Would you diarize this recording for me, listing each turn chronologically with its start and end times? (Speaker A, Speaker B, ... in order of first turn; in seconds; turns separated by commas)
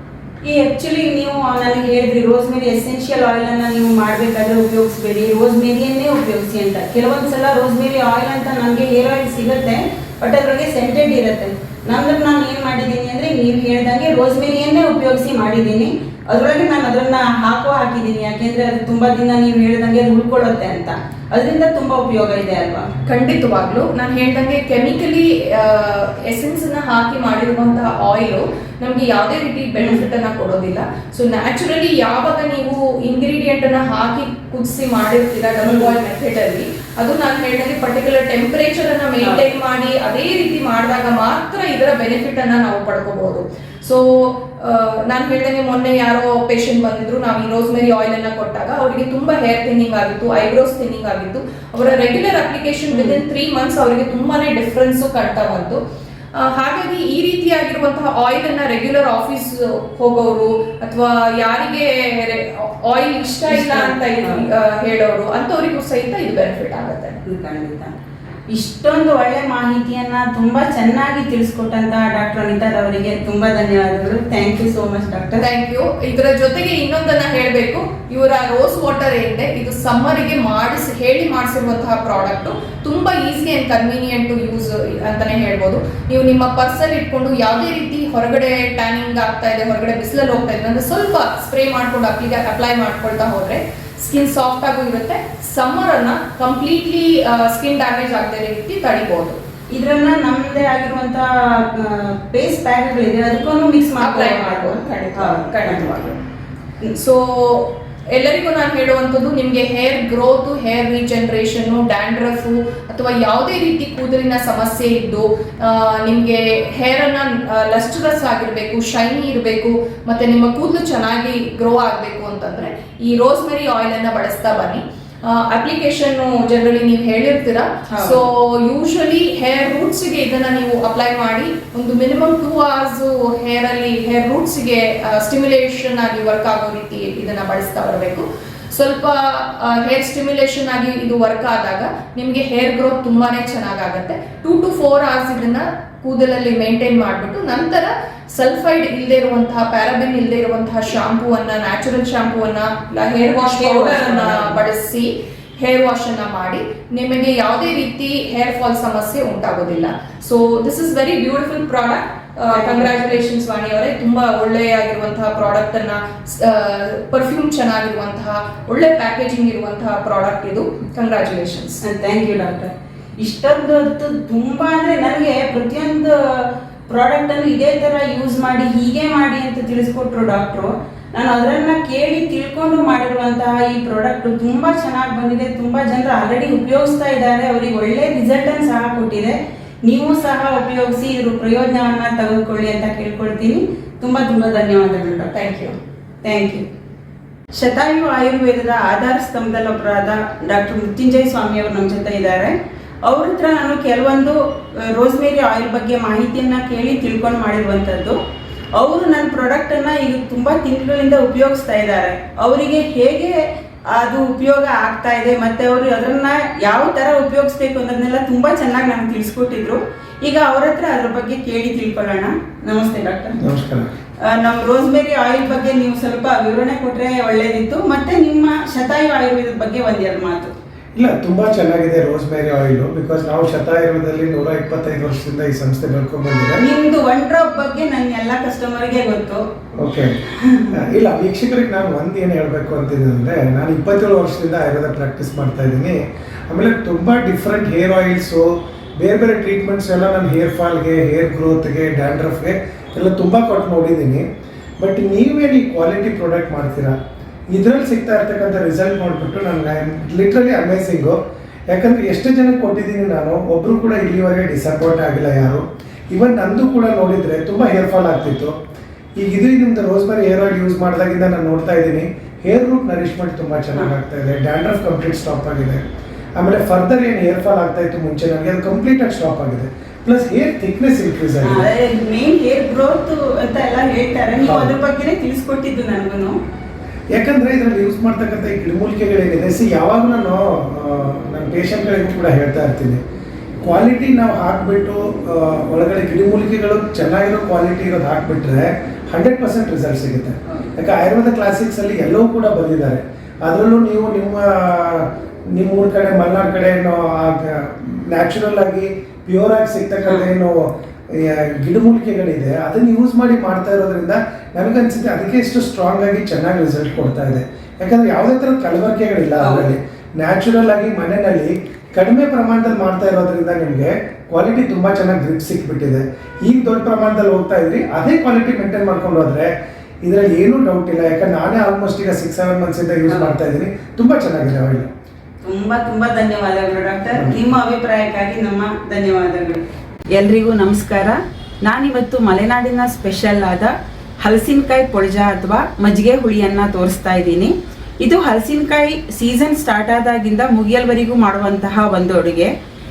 Speaker A: 0.4-22.9, Speaker B: 23.1-55.8, Speaker A: 35.6-35.9, Speaker A: 39.2-39.5, Speaker A: 52.9-53.2, Speaker B: 56.3-67.2, Speaker A: 63.5-64.5, Speaker A: 67.2-67.9, Speaker A: 68.5-75.4, Speaker B: 75.4-99.4, Speaker A: 99.7-106.0, Speaker B: 104.0-106.2, Speaker B: 107.0-171.8, Speaker A: 127.9-128.2, Speaker A: 153.4-154.6, Speaker A: 162.5-163.1, Speaker A: 171.8-195.4, Speaker B: 195.3-195.7, Speaker A: 196.2-196.7, Speaker A: 197.5-208.2, Speaker A: 208.8-223.4, Speaker C: 223.4-223.9, Speaker A: 224.2-230.5, Speaker C: 230.9-236.6, Speaker A: 236.6-239.4, Speaker C: 239.8-254.2, Speaker A: 240.3-240.8, Speaker C: 254.8-256.9, Speaker C: 257.5-261.2, Speaker C: 261.7-268.5, Speaker C: 269.2-275.8, Speaker C: 276.4-281.7, Speaker A: 281.4-286.4, Speaker C: 284.4-284.7, Speaker C: 287.1-293.0, Speaker C: 293.6-329.5, Speaker A: 319.4-319.7, Speaker C: 330.0-334.9, Speaker A: 333.1-333.3, Speaker A: 335.4-339.6, Speaker C: 337.1-337.4, Speaker A: 340.2-343.7, Speaker A: 344.2-347.5, Speaker A: 348.1-352.5